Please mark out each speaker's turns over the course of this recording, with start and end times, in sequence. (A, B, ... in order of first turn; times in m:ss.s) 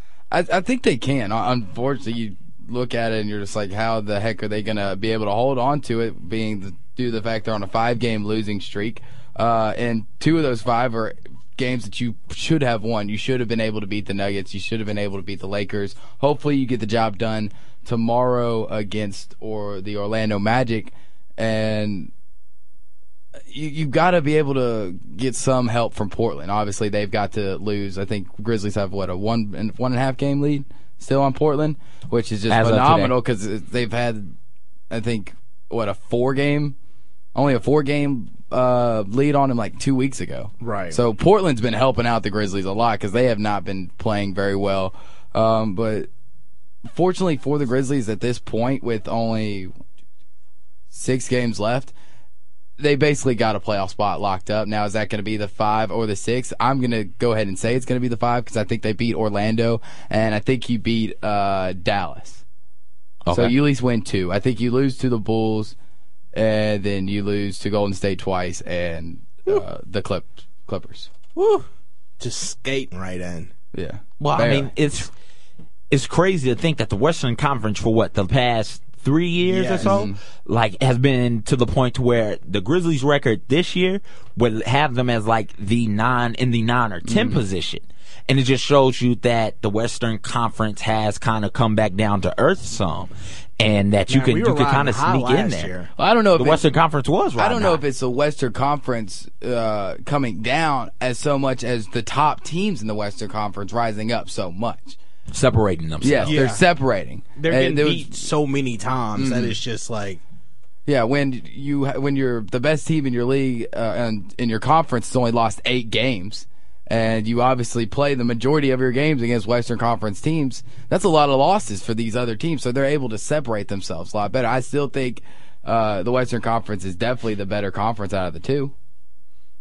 0:00.3-0:22.1 A
0:23.5-0:34.3 A
0:32.5-0:33.2 B
0:34.9-0:36.8 A
0:37.3-0:46.1 A
0:40.6-0:41.0 C
0:46.9-0:49.7 A
0:50.9-0:51.9 A
0:52.8-1:02.4 A
1:03.2-1:03.5 B
1:03.3-1:05.7 A
1:06.3-1:11.1 A
1:11.3-1:11.7 C
1:12.2-1:13.5 C
1:13.7-1:14.7 A
1:14.2-1:15.1 B
1:15.9-1:35.7 B
1:19.5-1:20.0 C
1:19.7-1:20.2 A
1:27.0-1:27.4 A
1:34.1-1:35.9 C
1:36.0-1:36.6 A
1:36.4-1:37.8 B
1:37.4-1:45.0 A
1:45.3-1:46.4 B
1:46.0-1:48.2 A
1:46.2-1:46.6 C
1:47.4-1:50.2 C
1:49.2-1:49.6 A
1:50.8-2:08.7 A